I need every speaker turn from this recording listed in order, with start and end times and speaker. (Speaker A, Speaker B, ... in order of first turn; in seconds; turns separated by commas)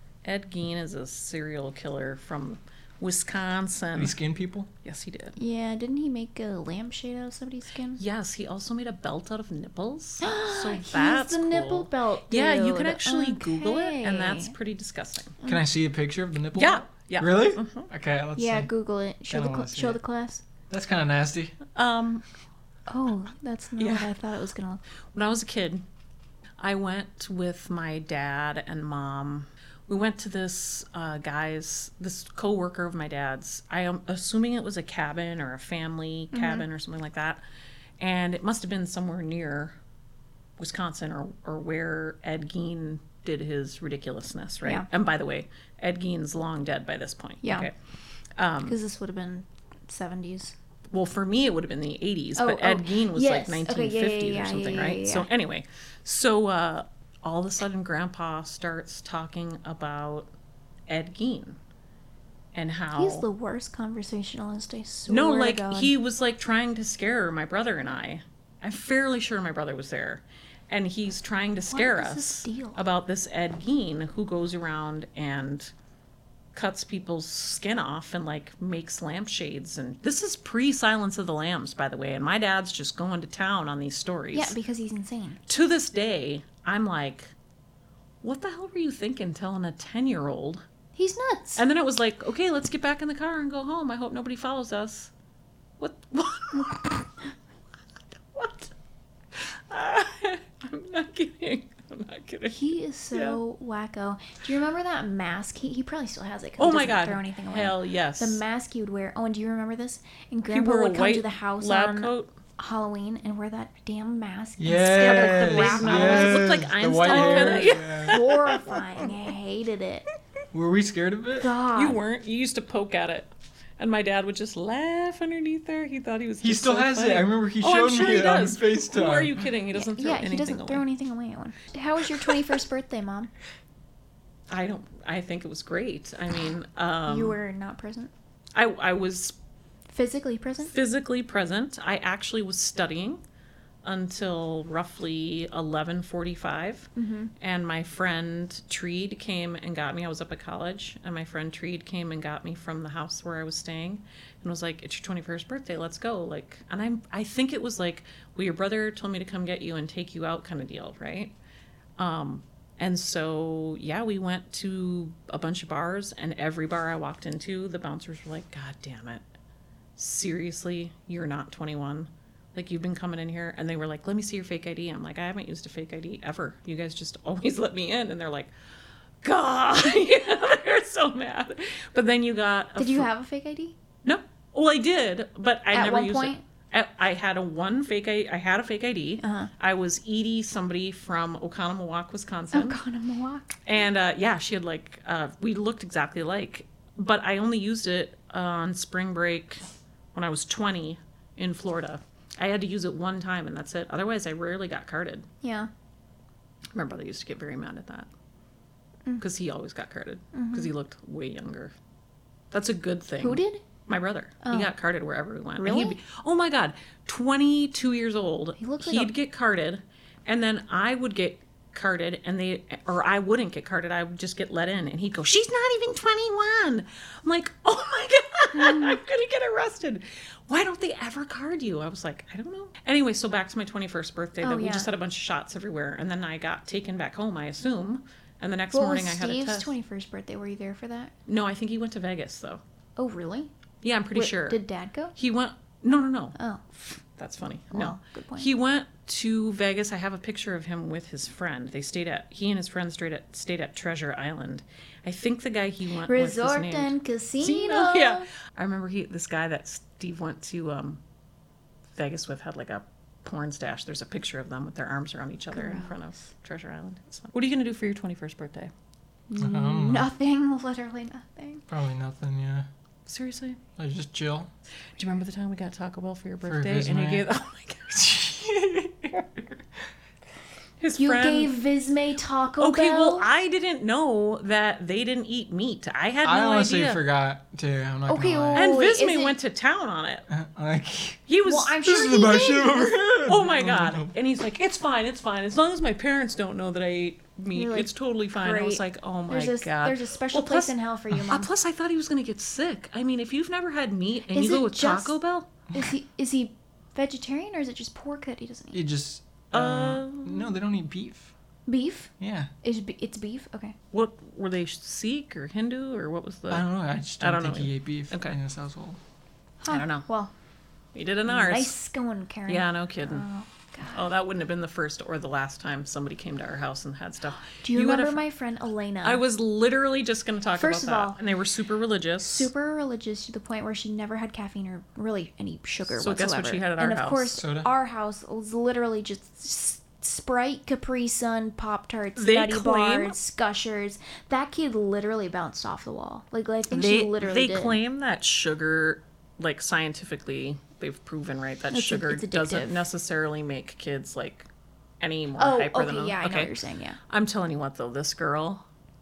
Speaker A: 0.2-4.2, Speaker B: 3.9-4.7, Speaker A: 4.8-5.3, Speaker C: 5.4-8.0, Speaker A: 8.0-15.4, Speaker C: 10.2-14.5, Speaker B: 15.4-18.7, Speaker A: 16.5-17.9, Speaker C: 18.4-20.4, Speaker B: 19.3-20.0, Speaker B: 20.7-21.6, Speaker A: 21.7-22.2, Speaker C: 22.9-24.8, Speaker A: 23.8-24.1, Speaker A: 25.1-25.8, Speaker A: 26.6-37.4, Speaker C: 36.3-36.6, Speaker A: 38.0-39.8, Speaker A: 40.6-47.7, Speaker C: 47.4-47.7, Speaker A: 48.4-48.8, Speaker C: 48.6-50.5, Speaker A: 50.9-60.3, Speaker C: 52.4-55.3, Speaker A: 60.9-61.6, Speaker A: 62.5-63.2, Speaker C: 62.9-65.9, Speaker A: 65.1-75.7, Speaker C: 71.7-72.8, Speaker A: 76.5-84.5, Speaker C: 84.3-85.4, Speaker A: 85.5-87.3, Speaker A: 88.2-90.6, Speaker C: 91.0-91.6, Speaker A: 91.6-95.1, Speaker A: 95.8-97.0, Speaker A: 98.3-98.7, Speaker A: 99.3-103.4, Speaker C: 102.5-120.0, Speaker A: 106.6-108.4, Speaker A: 110.5-112.3, Speaker B: 114.6-118.2, Speaker A: 114.9-119.1, Speaker B: 120.5-121.5, Speaker C: 121.4-122.0, Speaker A: 121.7-130.8, Speaker B: 126.4-129.4, Speaker C: 129.7-133.3, Speaker A: 134.5-137.4, Speaker C: 137.1-138.1, Speaker A: 138.5-139.3, Speaker C: 139.9-140.7, Speaker A: 140.6-143.2, Speaker A: 143.8-161.3, Speaker C: 146.9-147.3, Speaker A: 162.0-169.2, Speaker A: 169.9-178.5, Speaker A: 179.2-183.1, Speaker C: 182.8-183.8, Speaker A: 184.0-192.8, Speaker C: 185.7-186.4, Speaker C: 189.2-189.5, Speaker C: 192.5-193.6, Speaker A: 193.6-199.6, Speaker A: 200.1-205.3, Speaker C: 205.4-205.7, Speaker A: 206.7-208.1, Speaker A: 209.2-211.7, Speaker C: 210.3-210.7, Speaker A: 212.5-239.7, Speaker C: 213.2-213.6, Speaker C: 214.4-214.7, Speaker C: 215.6-216.0, Speaker C: 218.6-219.1, Speaker C: 228.5-229.0, Speaker C: 234.4-234.9, Speaker C: 238.7-241.1, Speaker A: 241.3-242.6, Speaker C: 243.0-243.5, Speaker A: 243.8-244.6, Speaker C: 244.1-245.1, Speaker A: 245.2-261.0, Speaker C: 246.3-246.6, Speaker C: 247.7-248.5, Speaker C: 256.1-258.3, Speaker A: 261.9-268.7, Speaker C: 265.5-265.9, Speaker C: 269.3-271.6, Speaker B: 269.4-270.1, Speaker B: 271.7-272.7, Speaker A: 273.1-273.6, Speaker B: 273.8-274.5, Speaker A: 275.0-278.3, Speaker B: 276.4-277.2, Speaker B: 277.9-279.2, Speaker A: 280.8-281.5, Speaker C: 280.9-283.2, Speaker A: 282.6-287.0, Speaker B: 286.2-288.7, Speaker C: 288.1-289.4, Speaker A: 288.5-290.2, Speaker B: 290.3-291.2, Speaker A: 291.3-291.8, Speaker C: 291.4-293.0, Speaker B: 291.8-294.1, Speaker A: 293.2-300.7, Speaker C: 297.5-301.5, Speaker A: 301.3-305.5, Speaker C: 304.3-305.1, Speaker C: 305.7-308.8, Speaker B: 308.7-311.3, Speaker A: 309.5-310.5, Speaker C: 311.7-312.1, Speaker B: 312.2-312.5, Speaker C: 312.6-313.8, Speaker A: 313.9-316.6, Speaker B: 316.5-319.0, Speaker A: 317.2-318.4, Speaker C: 319.6-320.3, Speaker A: 319.7-320.1, Speaker A: 320.9-321.8, Speaker C: 321.2-324.1, Speaker A: 322.5-323.2, Speaker A: 323.9-328.2, Speaker C: 327.4-329.2, Speaker A: 329.0-332.5, Speaker C: 330.5-331.2, Speaker C: 332.2-347.8, Speaker A: 336.0-337.4, Speaker B: 337.4-337.7, Speaker A: 342.1-343.1, Speaker A: 346.7-354.5, Speaker C: 351.7-352.8, Speaker A: 355.0-356.5, Speaker C: 355.4-357.0, Speaker A: 357.1-358.6